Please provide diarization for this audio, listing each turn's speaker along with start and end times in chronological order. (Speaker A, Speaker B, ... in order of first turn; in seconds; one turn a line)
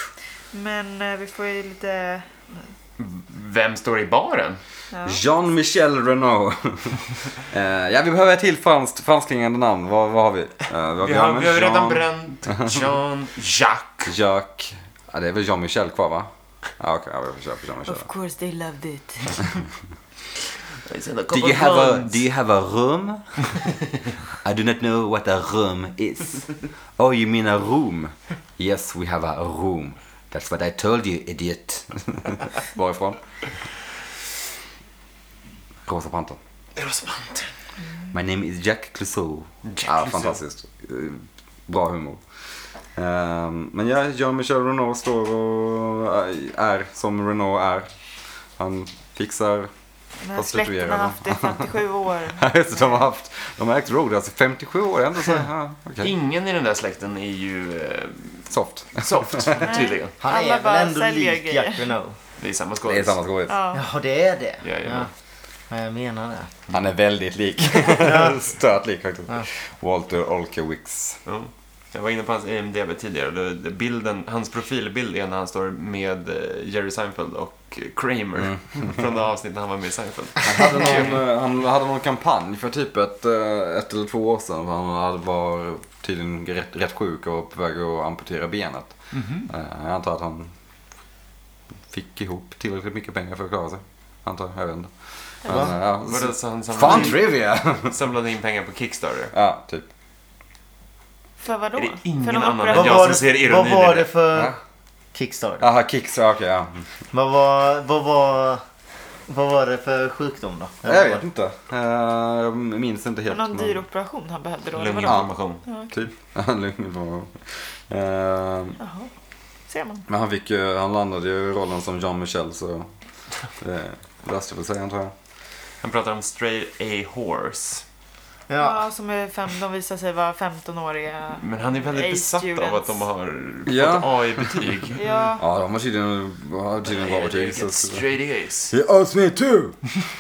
Speaker A: 0.5-2.7
Speaker B: 3.0-4.6
Speaker A: 4.9-5.2
Speaker C: 5.0-12.8
Speaker B: 11.0-14.1
Speaker C: 14.1-18.1
Speaker A: 17.9-19.5
Speaker B: 20.8-22.2
Speaker C: 21.3-23.4
Speaker C: 24.4-33.2
Speaker C: 35.9-36.4
Speaker B: 36.8-37.5
Speaker C: 38.1-42.2
Speaker B: 39.6-40.4
Speaker C: 42.9-47.9
Speaker C: 48.6-49.7
Speaker A: 50.2-53.0
Speaker C: 50.3-51.7
Speaker C: 52.4-56.1
Speaker B: 56.0-60.1
Speaker C: 58.5-59.7
Speaker A: 59.6-61.9
Speaker D: 60.2-62.2
Speaker B: 62.4-63.2
Speaker C: 62.9-63.6
Speaker A: 63.5-63.8
Speaker D: 63.7-65.1
Speaker B: 64.6-65.1
Speaker D: 65.7-66.5
Speaker C: 66.7-71.2
Speaker D: 67.8-68.4
Speaker B: 71.3-81.2
Speaker C: 80.4-90.5
Speaker B: 89.1-89.5
Speaker C: 91.9-97.9
Speaker B: 96.0-99.3
Speaker C: 99.3-99.9
Speaker A: 101.4-103.2
Speaker B: 101.8-104.1
Speaker D: 102.7-104.5
Speaker D: 105.1-105.7
Speaker C: 105.6-106.9
Speaker D: 107.1-108.6
Speaker D: 109.3-111.2
Speaker C: 110.8-113.8
Speaker A: 113.3-115.9
Speaker B: 114.8-115.6
Speaker C: 115.0-115.4
Speaker C: 115.9-118.8
Speaker A: 118.8-119.1
Speaker A: 119.7-120.0
Speaker C: 120.1-122.9
Speaker C: 123.6-125.1
Speaker B: 125.8-127.8
Speaker D: 128.5-128.8
Speaker A: 128.6-132.9
Speaker B: 131.4-135.1
Speaker C: 133.7-134.8
Speaker A: 135.0-135.4
Speaker C: 135.4-138.1
Speaker B: 136.8-138.7
Speaker C: 138.7-139.8